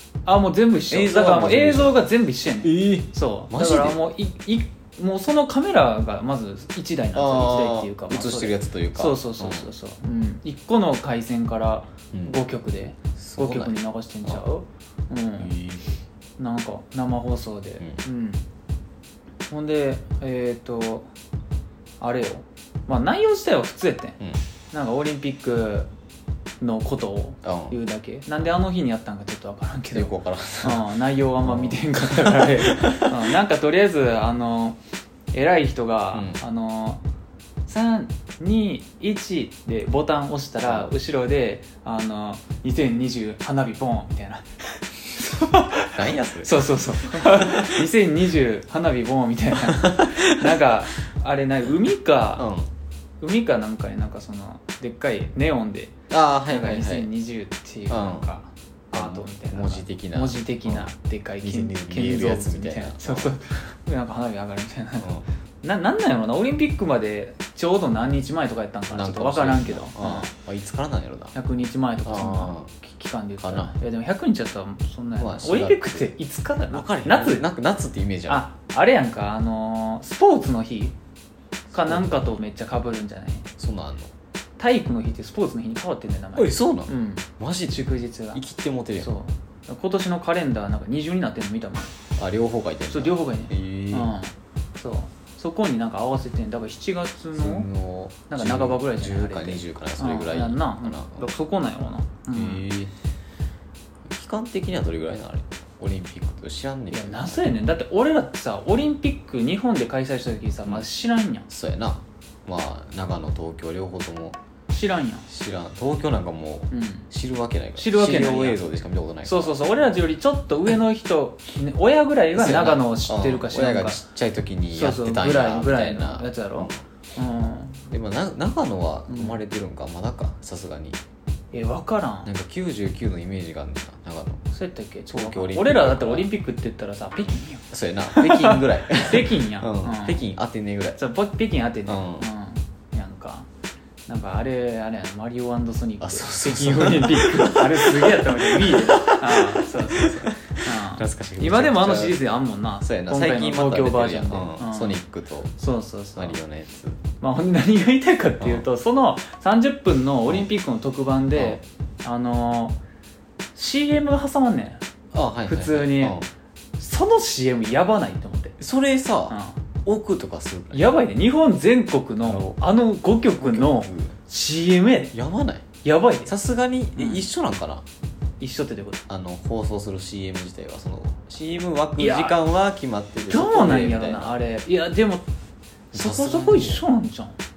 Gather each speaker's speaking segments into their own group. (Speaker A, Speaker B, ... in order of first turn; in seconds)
Speaker A: 0.3-15.6, 16.4-18.4, 19.5-21.1, 22.0-24.2, 24.7-25.9, 26.6-34.8, 35.3-37.0, 37.7-44.5, 45.0-52.5, 53.2-56.0, 56.5-65.1, 65.6-70.3, 71.3-77.5, 78.3-81.0, 81.7-83.5, 84.6-88.4, 89.0-92.0, 92.9-97.7, 98.3-102.7, 106.9-111.5, 114.7-115.3, 116.7-117.1, 117.8-118.6, 119.2-124.0, 124.7-127.8, 129.1-129.4, 131.5-132.3, 134.5-140.2, 141.0-143.5, 144.1-155.0, 155.6-156.4, 157.2-162.8, 163.6-164.8, 165.5-166.2, 166.8-168.6, 169.3-169.6, 170.7-175.2, 175.8-176.3, 177.0-177.2, 178.4-179.0, 182.0-182.4, 183.3-185.2, 185.9-187.4
Speaker B: 0.9-2.1, 2.6-4.0, 7.2-9.7, 12.1-12.4, 13.0-14.4, 15.4-15.9, 27.4-27.8, 29.9-30.9, 31.4-33.2, 36.1-36.4, 45.9-47.9, 49.7-50.5, 52.4-52.7, 56.1-57.1, 57.9-58.3, 58.9-63.4, 68.9-71.3, 72.0-72.7, 73.4-73.7, 75.2-76.1, 76.7-78.5, 81.7-82.4, 83.6-84.1, 86.4-89.1, 92.2-94.1, 97.3-101.3, 102.3-102.9, 104.0-107.5, 111.5-114.4, 115.3-120.0, 122.3-126.8, 127.9-131.0, 132.2-134.4, 135.1-136.3, 137.7-141.0, 141.9-142.3, 146.0-152.2, 152.8-155.5, 156.2-157.0, 158.4-158.7, 161.3-161.6, 165.1-166.3, 168.6-171.0, 172.2-172.6, 173.4-174.2, 175.1-175.7, 176.3-177.8, 179.1-184.3, 185.9-186.8